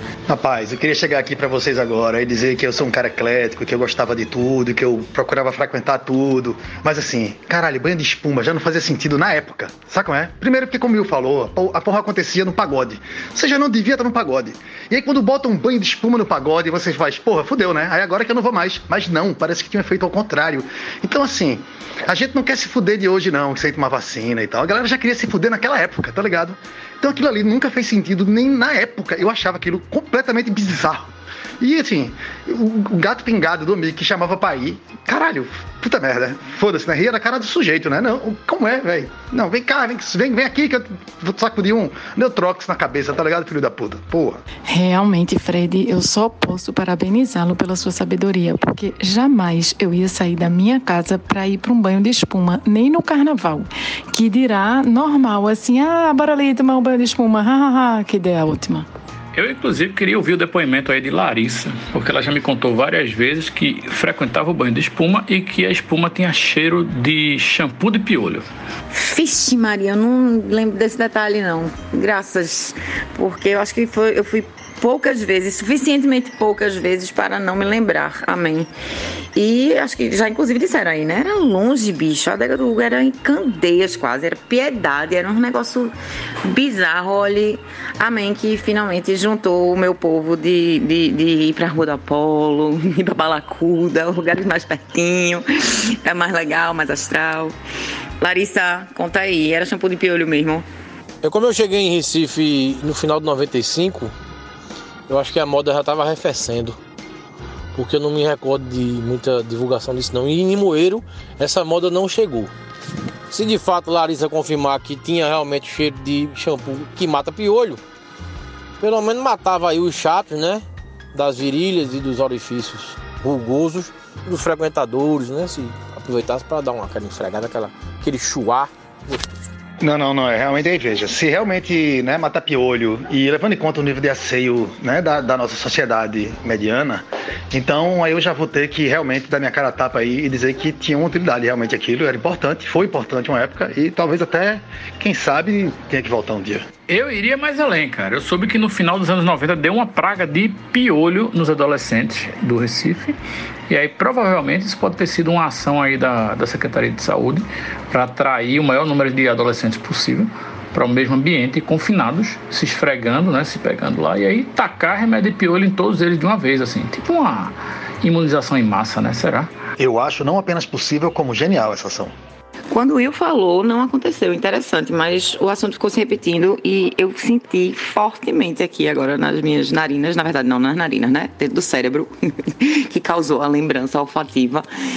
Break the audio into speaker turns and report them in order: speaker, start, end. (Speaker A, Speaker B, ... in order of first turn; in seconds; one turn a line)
Speaker A: 0.3-44.4
Speaker B: 44.6-58.9
Speaker C: 59.3-68.5
Speaker D: 68.9-78.7
Speaker D: 79.3-85.9
Speaker D: 86.5-97.5
Speaker D: 98.2-100.6
Speaker E: 101.2-104.1
Speaker E: 105.1-106.8
Speaker E: 107.7-112.5
Speaker E: 113.3-117.8
Speaker E: 118.8-129.3
Speaker A: 129.8-146.6
Speaker C: 146.9-153.2
Speaker C: 153.7-169.5
Speaker A: 169.8-172.1
Speaker D: 172.7-184.7